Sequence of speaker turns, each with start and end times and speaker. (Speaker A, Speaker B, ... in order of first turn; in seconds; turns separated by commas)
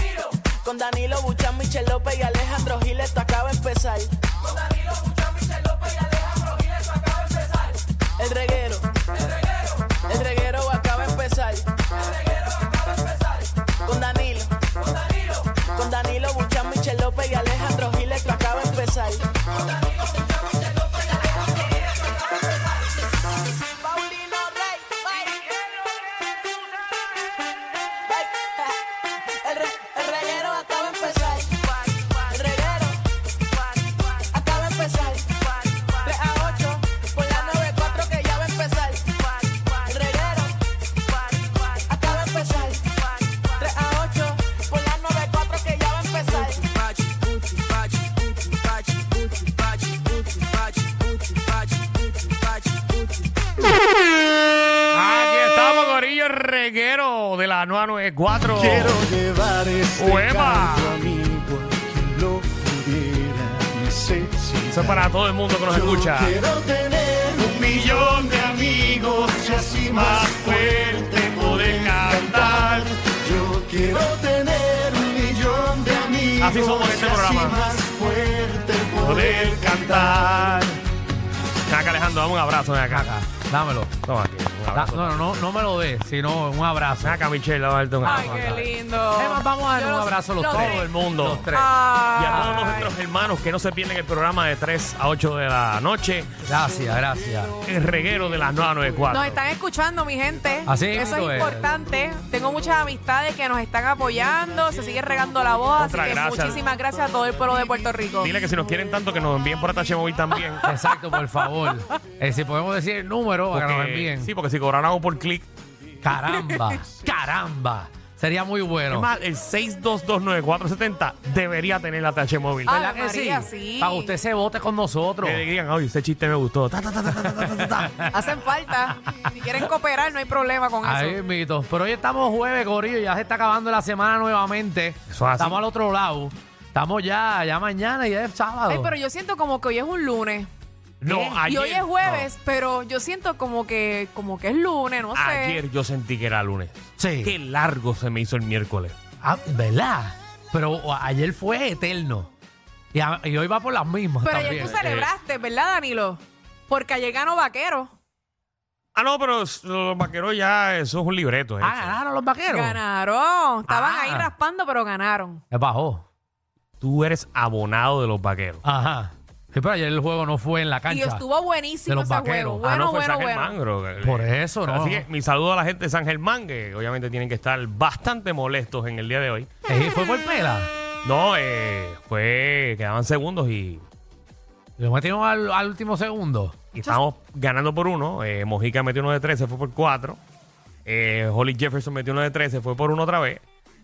Speaker A: 0.6-4.2, Speaker A: 8.2-8.9, Speaker A: 10.0-11.8, Speaker A: 13.8-14.6, Speaker A: 15.5-19.2, Speaker A: 23.7-25.5, Speaker A: 28.0-33.0, Speaker A: 33.7-40.6, Speaker A: 41.1-53.2, Speaker B: 54.9-59.1, Speaker C: 58.5-65.1, Speaker B: 60.0-61.0, Speaker B: 64.7-66.4, Speaker C: 65.7-80.3, Speaker B: 67.5-73.0, Speaker B: 76.4-77.8, Speaker B: 78.9-80.8, Speaker B: 81.7-83.1, Speaker D: 82.9-83.9, Speaker B: 84.0-85.4, Speaker D: 84.7-87.2, Speaker B: 87.0-88.7, Speaker E: 88.0-90.9, Speaker D: 88.0-88.6, Speaker D: 89.2-92.9, Speaker B: 90.4-91.5, Speaker E: 91.5-92.9, Speaker B: 92.1-96.3, Speaker D: 96.5-97.6, Speaker B: 97.6-99.4, Speaker E: 99.1-108.3, Speaker D: 100.7-101.8, Speaker B: 105.8-106.7, Speaker B: 108.2-110.7, Speaker D: 110.6-114.3, Speaker B: 113.5-115.5, Speaker D: 116.0-119.1, Speaker B: 118.9-122.8, Speaker D: 122.7-125.5, Speaker E: 122.7-124.1, Speaker B: 125.2-128.1, Speaker D: 127.3-128.2, Speaker E: 128.1-131.2, Speaker D: 130.8-138.9, Speaker B: 135.1-135.6, Speaker E: 138.7-140.5, Speaker B: 141.0-142.3, Speaker D: 141.0-141.4, Speaker E: 141.4-145.6, Speaker B: 145.1-148.9, Speaker D: 147.0-147.4, Speaker D: 149.2-152.3, Speaker D: 152.9-154.8, Speaker E: 154.2-157.9, Speaker B: 154.6-155.1, Speaker B: 158.9-162.0, Speaker D: 161.6-162.8, Speaker E: 162.5-165.4, Speaker D: 163.7-164.3, Speaker D: 165.5-166.0, Speaker B: 166.8-168.6, Speaker D: 168.6-171.2, Speaker E: 170.9-173.6, Speaker D: 171.9-172.7, Speaker B: 172.6-179.5, Speaker D: 174.0-175.1, Speaker D: 179.7-180.7, Speaker B: 181.0-183.8, Speaker D: 184.8-186.6, Speaker B: 186.7-190.2, Speaker B: 190.8-193.4